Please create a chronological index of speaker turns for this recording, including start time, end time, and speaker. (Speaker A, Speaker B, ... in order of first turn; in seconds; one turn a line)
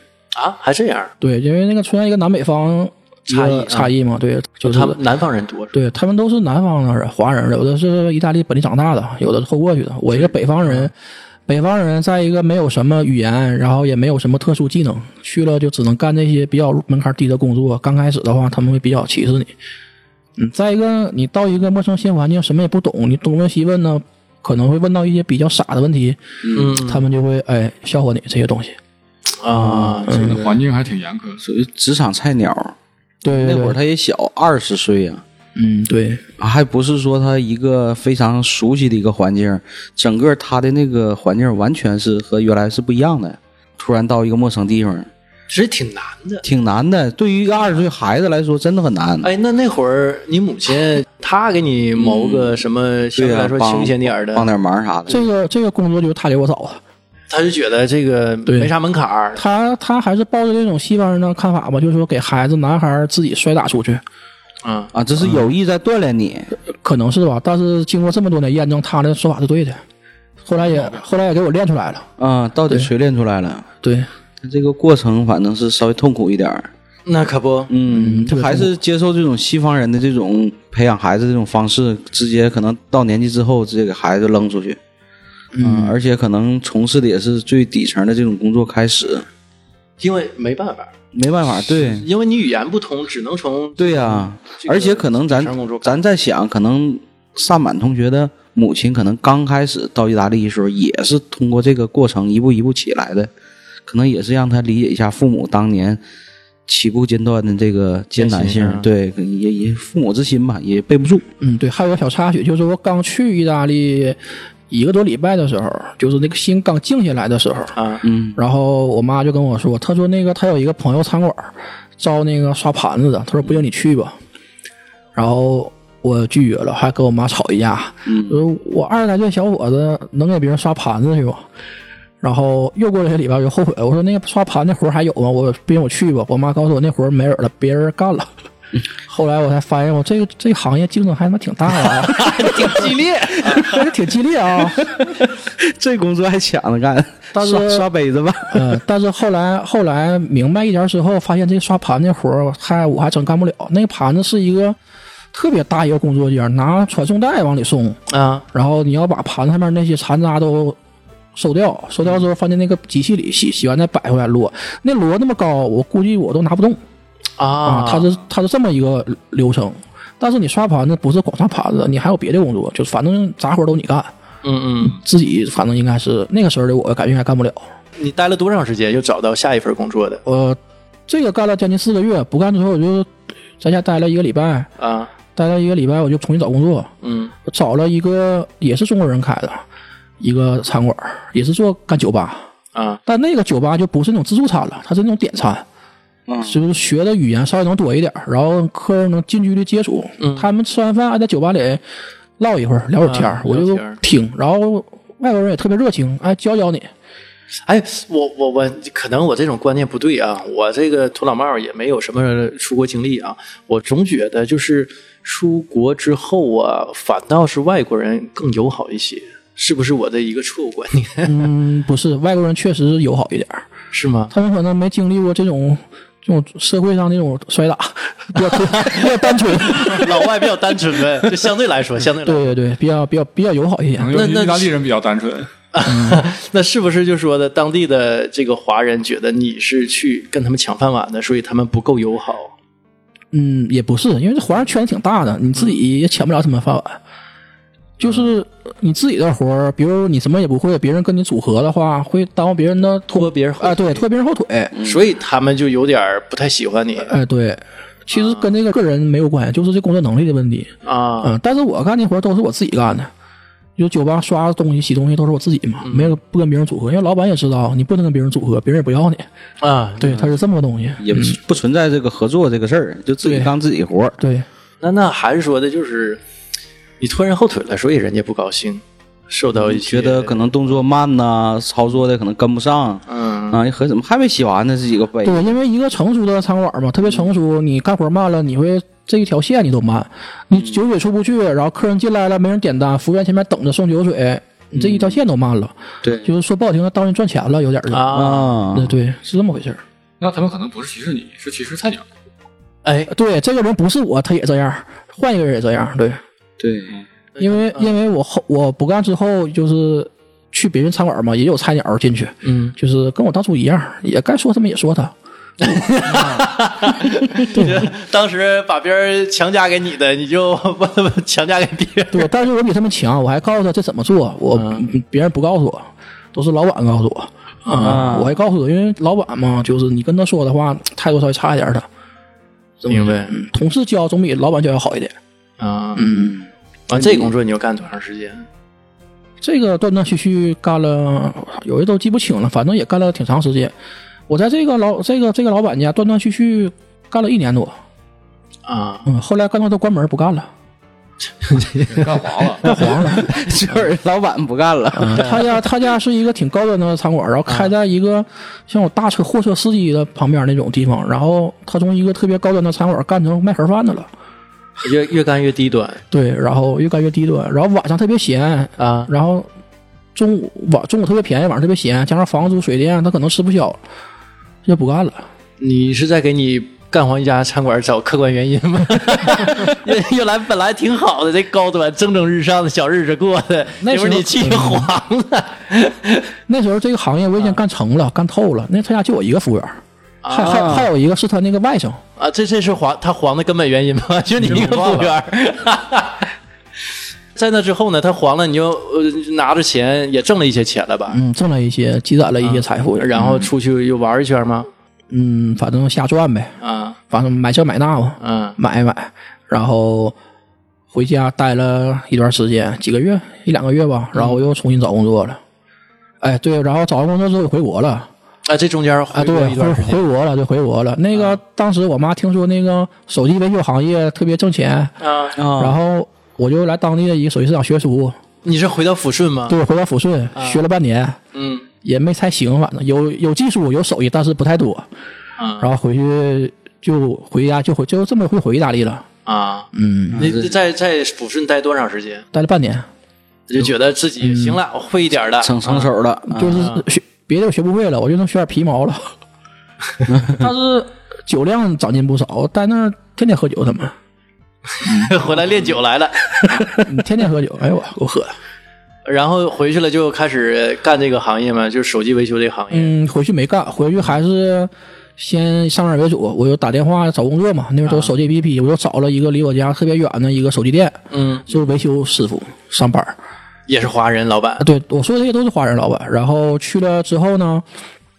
Speaker A: 0.3-1.1
Speaker B: 1.2-5.0
Speaker A: 3.3-3.9
Speaker A: 4.6-5.8
Speaker B: 5.7-10.9
Speaker A: 10.1-10.9
Speaker B: 11.5-19.6
Speaker B: 20.4-26.2
Speaker C: 26.4-26.8
Speaker A: 26.6-27.1
Speaker B: 26.8-28.8
Speaker A: 29.4-30.5
Speaker C: 29.5-30.1
Speaker B: 30.1-30.4
Speaker D: 30.1-31.4
Speaker C: 31.4-35.2
Speaker B: 33.2-33.8
Speaker B: 35.5-36.2
Speaker C: 36.4-45.1
Speaker A: 45.5-46.4
Speaker C: 46.4-49.3
Speaker A: 49.2-54.5
Speaker C: 52.0-52.6
Speaker C: 53.2-55.2
Speaker B: 55.1-56.8
Speaker A: 57.3-59.4
Speaker B: 59.4-64.0
Speaker A: 64.6-64.9
Speaker C: 64.9-66.5
Speaker B: 65.2-65.5
Speaker B: 66.6-69.8
Speaker B: 70.4-72.1
Speaker C: 72.2-73.7
Speaker B: 73.8-74.1
Speaker C: 74.4-76.7
Speaker A: 77.1-77.7
Speaker C: 77.7-84.8
Speaker B: 77.8-78.7
Speaker B: 85.5-86.0
Speaker C: 85.6-89.3
Speaker A: 90.0-90.9
Speaker C: 91.1-92.1
Speaker A: 91.7-96.0
Speaker C: 93.8-103.3
Speaker C: 103.9-106.0
Speaker C: 106.7-111.2
Speaker A: 108.2-108.9
Speaker B: 111.4-114.2
Speaker B: 114.7-117.8
Speaker A: 117.8-118.0
Speaker C: 118.0-118.4
Speaker B: 118.4-124.2
Speaker B: 125.2-131.5
Speaker C: 128.1-128.4
Speaker B: 132.2-138.3
Speaker B: 139.1-144.8
Speaker A: 142.2-143.8
Speaker C: 144.8-148.8
Speaker B: 147.3-147.9
Speaker B: 148.5-154.8
Speaker B: 155.3-158.0
Speaker A: 158.1-158.4
Speaker B: 158.5-160.8
Speaker B: 161.4-166.8
Speaker A: 167.4-168.1
Speaker B: 167.7-174.1
Speaker A: 174.4-175.0
Speaker B: 174.8-177.6
Speaker A: 178.0-180.2
Speaker B: 180.2-184.7
Speaker A: 184.8-185.1
Speaker B: 185.4-186.9
Speaker A: 187.0-187.3
Speaker B: 187.5-189.6
Speaker B: 190.2-192.5
Speaker A: 192.7-193.0
Speaker B: 193.1-195.7
Speaker C: 196.3-196.6
Speaker B: 196.4-201.8
Speaker A: 200.2-200.5
Speaker B: 202.4-206.9
Speaker A: 203.0-204.0
Speaker A: 207.7-221.3
Speaker B: 221.2-223.7
Speaker A: 223.9-224.3
Speaker B: 224.3-230.2
Speaker A: 228.5-232.5
Speaker B: 232.2-234.2
Speaker D: 234.0-235.5
Speaker A: 234.1-234.7
Speaker A: 235.7-242.5
Speaker B: 235.8-236.2
Speaker B: 243.3-247.0
Speaker B: 248.0-254.7
Speaker A: 248.0-248.3
Speaker A: 253.1-254.1
Speaker C: 254.7-255.0
Speaker A: 254.8-257.1
Speaker B: 257.1-260.7
Speaker A: 258.1-258.5
Speaker A: 260.8-261.3
Speaker B: 261.2-263.1
Speaker B: 263.8-269.3
Speaker A: 265.8-266.2
Speaker A: 269.6-270.3
Speaker B: 270.0-271.4
Speaker C: 271.0-274.2
Speaker B: 273.2-273.5
Speaker B: 274.2-274.5
Speaker A: 274.8-276.2
Speaker A: 277.0-280.7
Speaker C: 279.6-285.5
Speaker A: 283.1-283.6
Speaker B: 285.2-298.2
Speaker C: 290.5-290.8
Speaker C: 294.8-295.2
Speaker C: 296.0-296.3
Speaker A: 297.9-298.6
Speaker C: 298.1-298.9
Speaker B: 298.7-299.8
Speaker D: 300.2-302.1
Speaker A: 302.9-303.1
Speaker B: 303.1-306.2
Speaker C: 306.6-307.0
Speaker A: 307.4-307.9
Speaker B: 307.4-315.1
Speaker A: 312.4-312.8
Speaker A: 315.6-322.3
Speaker B: 317.5-317.9
Speaker B: 322.1-331.9
Speaker A: 324.5-324.9
Speaker C: 327.8-328.3
Speaker B: 332.8-335.2
Speaker A: 332.9-333.4
Speaker A: 335.6-336.2
Speaker B: 336.0-336.4
Speaker C: 336.1-337.3
Speaker A: 336.9-338.5
Speaker B: 339.4-343.7
Speaker B: 344.3-347.8
Speaker A: 348.7-349.1
Speaker B: 349.1-350.5
Speaker A: 351.4-353.2
Speaker D: 351.9-352.6
Speaker B: 352.6-353.3
Speaker C: 353.1-355.5
Speaker B: 354.9-364.1
Speaker A: 355.1-355.4
Speaker A: 357.5-357.7
Speaker A: 364.8-366.0
Speaker B: 366.1-369.5
Speaker A: 368.8-369.1
Speaker B: 370.1-373.8
Speaker B: 374.6-375.3
Speaker A: 375.6-386.3
Speaker B: 383.8-384.9
Speaker B: 386.5-392.0
Speaker A: 390.2-390.9
Speaker C: 390.5-390.8
Speaker A: 392.2-396.2
Speaker B: 394.4-394.9
Speaker C: 394.5-395.1
Speaker A: 397.4-401.2
Speaker B: 401.1-403.5
Speaker A: 402.4-404.7
Speaker B: 405.1-406.6
Speaker A: 406.6-407.0
Speaker B: 407.1-410.1
Speaker A: 408.2-408.6
Speaker B: 410.9-415.4
Speaker A: 414.1-414.4
Speaker B: 416.2-418.1
Speaker A: 418.5-420.0
Speaker B: 419.1-425.0
Speaker A: 425.0-425.4
Speaker C: 425.4-425.8
Speaker B: 425.6-428.2
Speaker A: 428.4-429.6
Speaker B: 429.5-431.2
Speaker A: 430.4-430.6
Speaker A: 431.3-431.7
Speaker B: 431.8-434.9
Speaker A: 435.4-435.7
Speaker B: 435.6-439.1
Speaker A: 439.3-442.2
Speaker B: 439.7-440.3
Speaker C: 440.1-440.5
Speaker B: 442.3-442.9
Speaker A: 443.5-445.9
Speaker B: 444.2-444.6
Speaker C: 445.4-446.7
Speaker B: 446.3-449.1
Speaker A: 446.5-446.9
Speaker C: 450.1-450.4
Speaker B: 450.3-454.0
Speaker A: 454.7-456.2
Speaker B: 454.9-455.1
Speaker B: 456.6-458.4
Speaker A: 459.1-462.9
Speaker B: 462.7-473.2
Speaker A: 467.9-468.1
Speaker A: 471.1-471.5
Speaker A: 473.7-474.6
Speaker B: 474.6-477.6